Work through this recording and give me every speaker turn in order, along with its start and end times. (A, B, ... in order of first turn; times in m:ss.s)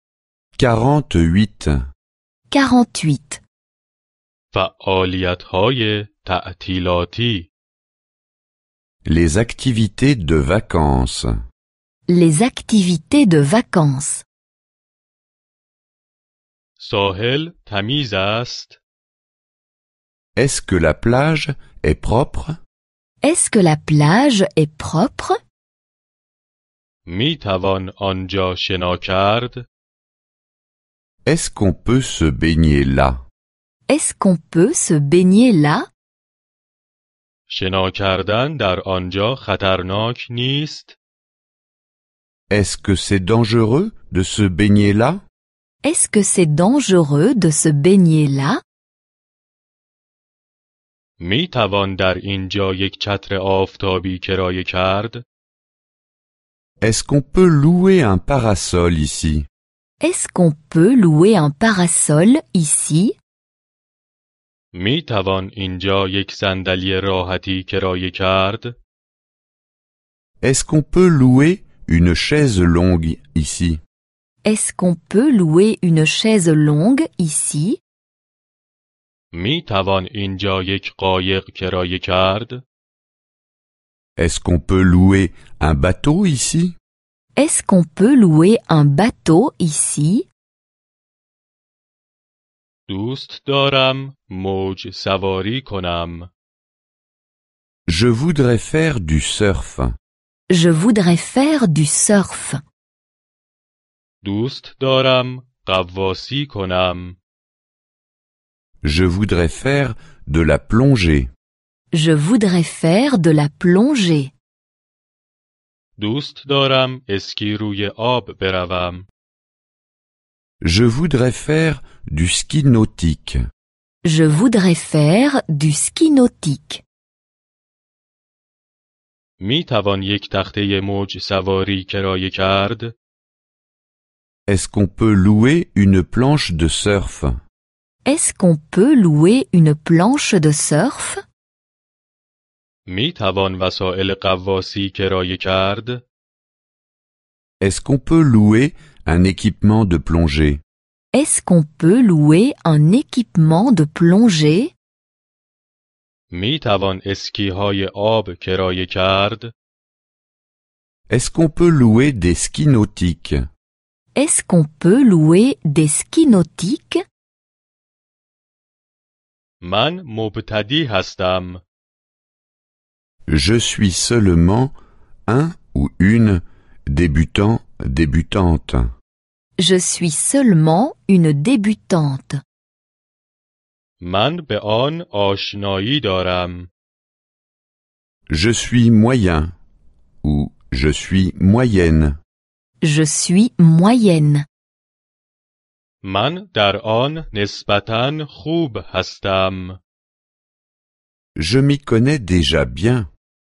0:00.6-0:01.8 A
0:02.5-0:03.4 B
0:04.5-0:07.5 C
0:09.0-0:11.3 A
0:12.1-0:14.2 B
0:16.8-0:18.8 C
0:20.4-0:22.6 A
0:23.2-0:25.4 B
0:27.1-0:29.6 C
0:31.2-0:33.2 A
0:33.9-0:35.9 B
0:37.5-0:41.0 C
0:42.5-0:45.2 A
0:45.8-0:48.6 B
0:51.2-0:55.2 C
0:56.8-0:59.4 A
1:00.0-1:03.2 B
1:04.7-1:08.7 C
1:10.4-1:13.8 A
1:14.4-1:17.8 B
1:19.3-1:22.6 C
1:24.2-1:26.7 A
1:27.4-1:30.3 B
1:32.9-1:36.3 C
1:37.9-1:39.9 A
1:40.5-1:42.6 B
1:44.2-1:47.2 C
1:48.8-1:51.3 A
1:51.9-1:54.3 B
1:56.0-1:59.0 C
2:00.6-2:03.4 A
2:04.0-2:06.8 B
2:09.4-2:13.0 C
2:14.5-2:17.3 A
2:18.1-2:21.2 B
2:22.9-2:26.0 C
2:27.6-2:30.6 A
2:31.1-2:34.7 B
2:36.3-2:39.5 C
2:41.1-2:43.4 A
2:44.2-2:47.0 B
2:49.6-2:51.6 C
2:53.3-2:54.8 A
2:55.3-2:58.9 A
2:59.6-3:02.3 B
3:04.0-3:06.7 C
3:08.3-3:09.5 A
3:10.2-3:12.2 A
3:12.8-3:14.5 B
3:16.0-3:19.8 C
3:21.4-3:23.1 A